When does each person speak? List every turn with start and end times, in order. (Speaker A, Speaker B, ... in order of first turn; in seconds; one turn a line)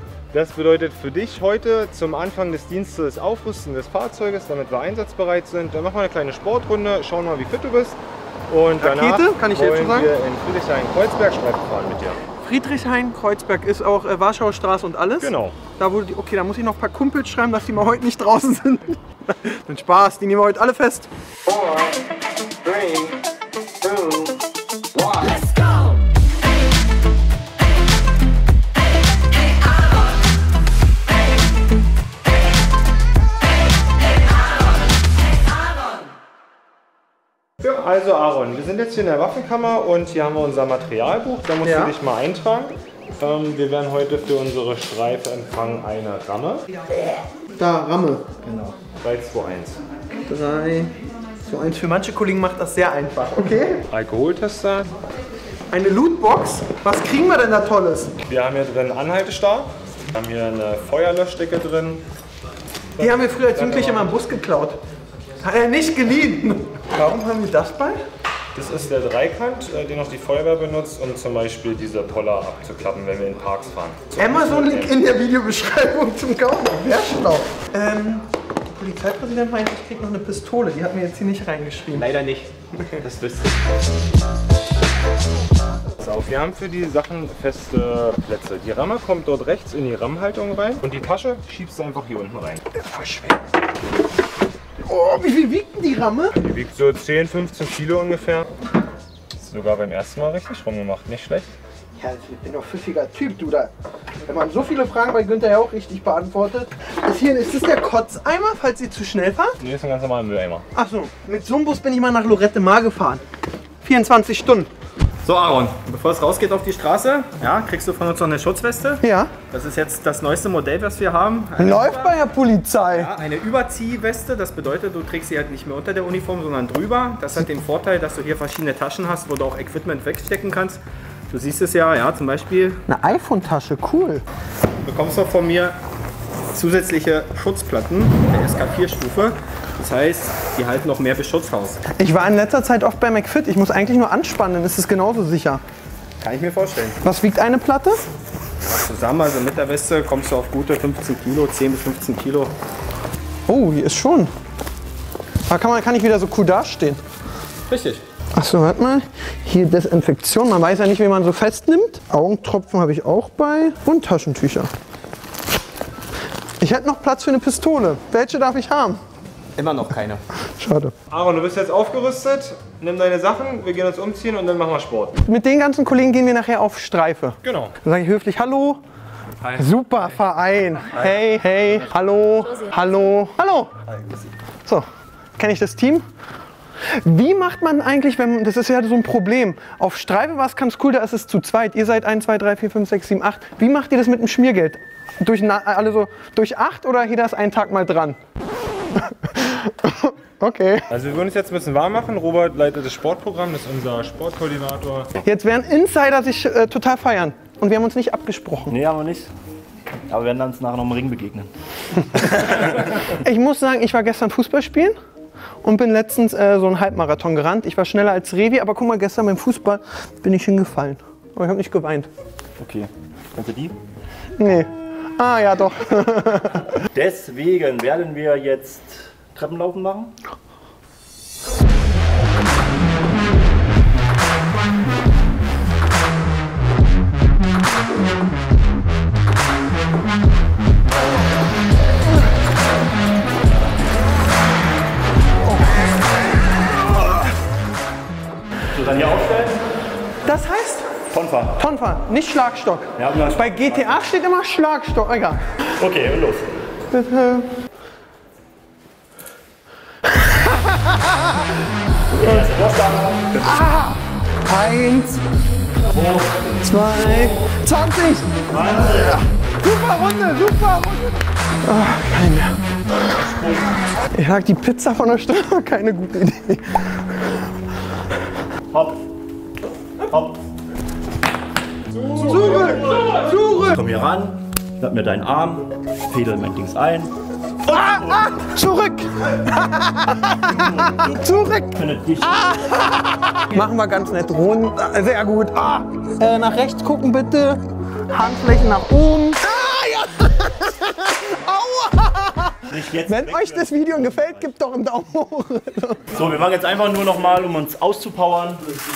Speaker A: 0.3-8.0
Speaker A: 8.5-12.2
Speaker B: 8.8-10.1
Speaker B: 12.4-21.1
Speaker A: 15.2-15.6
Speaker A: 37.6-46.6
Speaker B: 41.6-42.0
Speaker B: 47.5-48.3
Speaker C: 48.4-48.7
Speaker A: 49.0-49.8
Speaker B: 50.1-53.8
Speaker A: 53.9-54.9
Speaker B: 55.7-58.1
Speaker A: 58.2-62.0
Speaker A: 63.0-64.1
Speaker B: 63.0-64.8
Speaker B: 65.4-68.0
Speaker A: 68.5-74.9
Speaker B: 74.2-82.1
Speaker A: 86.0-91.6
Speaker C: 91.6-92.6
Speaker B: 92.7-93.4
Speaker B: 94.8-96.3
Speaker A: 96.3-98.5
Speaker A: 99.3-101.5
Speaker B: 101.9-103.7
Speaker B: 104.2-109.5
Speaker A: 109.6-110.7
Speaker B: 110.7-113.2
Speaker B: 113.8-114.7
Speaker D: 115.2-122.2
Speaker B: 119.0-119.3
Speaker B: 121.6-123.1
Speaker D: 122.9-132.8
Speaker B: 132.9-134.2
Speaker D: 134.8-135.8
Speaker D: 136.5-141.8
Speaker B: 142.0-145.6
Speaker D: 146.2-147.0
Speaker B: 147.0-148.0
Speaker D: 148.7-152.5
Speaker B: 153.5-154.3
Speaker B: 155.5-157.0
Speaker B: 158.3-164.7
Speaker B: 166.6-169.0
Speaker C: 169.6-170.2
Speaker B: 170.5-170.9
Speaker A: 171.1-175.2
Speaker B: 175.3-178.8
Speaker A: 177.4-177.7
Speaker B: 179.4-183.7
Speaker B: 185.4-186.0
Speaker B: 187.0-198.2
Speaker B: 198.9-200.8
Speaker A: 200.9-205.1
Speaker B: 205.2-208.7
Speaker C: 208.7-209.3
Speaker C: 210.1-211.5
Speaker C: 212.2-212.7
Speaker B: 213.2-214.9
Speaker B: 215.6-222.1
Speaker C: 222.6-223.7
Speaker B: 224.4-226.6
Speaker C: 226.9-230.1
Speaker B: 245.4-245.9
Speaker C: 248.7-249.7
Speaker B: 250.2-251.0
Speaker C: 251.1-251.6
Speaker B: 251.6-255.4
Speaker C: 252.9-253.9
Speaker C: 255.7-256.8
Speaker B: 256.9-257.5
Speaker B: 260.2-261.2
Speaker C: 262.1-263.6
Speaker B: 263.4-265.2
Speaker C: 265.9-266.5
Speaker B: 266.6-268.3
Speaker C: 268.5-269.2
Speaker B: 269.6-272.6
Speaker C: 273.0-273.7
Speaker B: 274.1-277.1
Speaker C: 278.7-279.0
Speaker C: 280.1-280.4
Speaker B: 282.2-283.8
Speaker C: 283.7-287.1
Speaker C: 287.7-288.2
Speaker B: 287.7-291.8
Speaker C: 290.7-291.1
Speaker C: 291.7-292.6
Speaker B: 292.4-306.0
Speaker C: 302.7-304.5
Speaker C: 306.1-308.6